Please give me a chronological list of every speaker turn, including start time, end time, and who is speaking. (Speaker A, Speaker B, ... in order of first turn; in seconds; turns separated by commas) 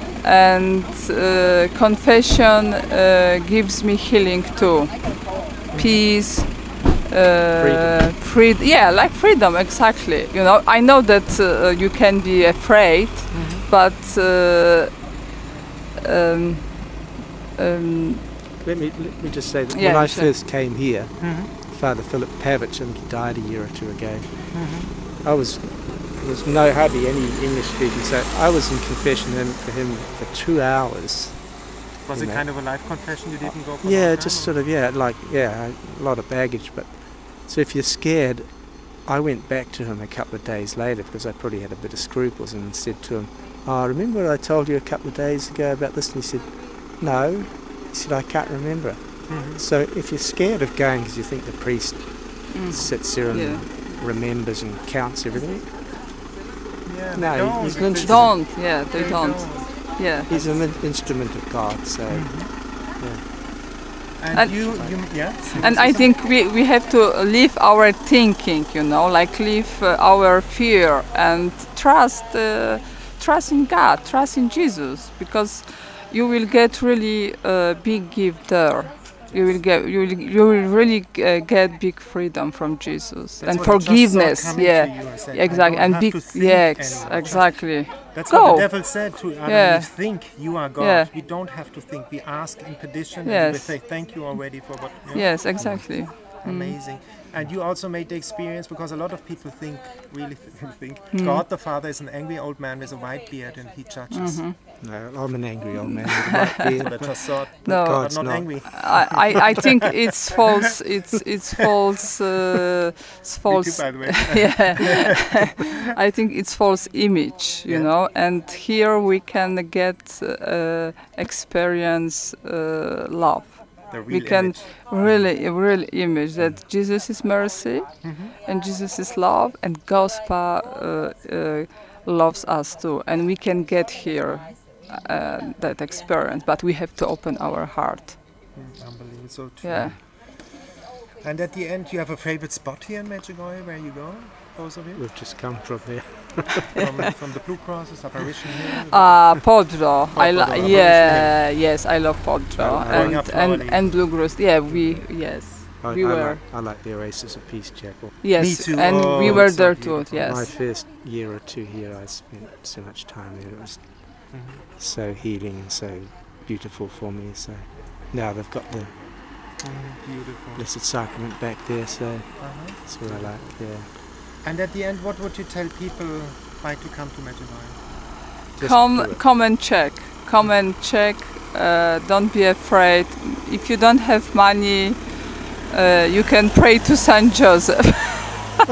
Speaker A: 0.2-15.2, Speaker B: 5.7-6.0, Speaker C: 7.6-8.1, Speaker B: 13.3-13.7, Speaker A: 16.0-18.3, Speaker C: 18.6-55.8, Speaker A: 19.7-20.3, Speaker B: 21.2-21.5, Speaker B: 24.5-24.9, Speaker B: 32.1-34.7, Speaker B: 49.3-49.6, Speaker A: 52.5-53.7, Speaker B: 56.8-60.9, Speaker C: 57.1-58.5, Speaker A: 58.0-60.3, Speaker C: 60.3-63.3, Speaker B: 62.1-62.5, Speaker B: 64.2-66.2, Speaker A: 64.3-91.1, Speaker C: 64.7-65.8, Speaker B: 83.4-104.5, Speaker A: 93.2-97.0, Speaker C: 95.6-95.9, Speaker A: 101.1-101.5, Speaker A: 104.1-104.6, Speaker C: 104.8-109.0, Speaker A: 105.8-107.0, Speaker B: 106.8-109.6, Speaker A: 107.6-138.2, Speaker B: 113.5-115.5, Speaker B: 117.7-117.9, Speaker B: 123.9-125.1, Speaker B: 128.0-128.3, Speaker B: 138.5-140.5, Speaker A: 139.6-140.0, Speaker C: 139.7-140.0, Speaker B: 141.2-145.0, Speaker C: 144.9-146.8, Speaker B: 146.8-151.7, Speaker A: 148.9-156.4, Speaker C: 150.6-151.3, Speaker C: 152.6-153.2, Speaker B: 152.8-155.4, Speaker C: 155.8-158.6, Speaker A: 158.2-160.5, Speaker B: 158.3-160.6, Speaker C: 159.2-169.0, Speaker B: 164.3-164.6, Speaker B: 169.6-170.7, Speaker C: 170.6-173.9, Speaker B: 172.4-177.8, Speaker C: 178.6-179.2, Speaker A: 178.6-188.6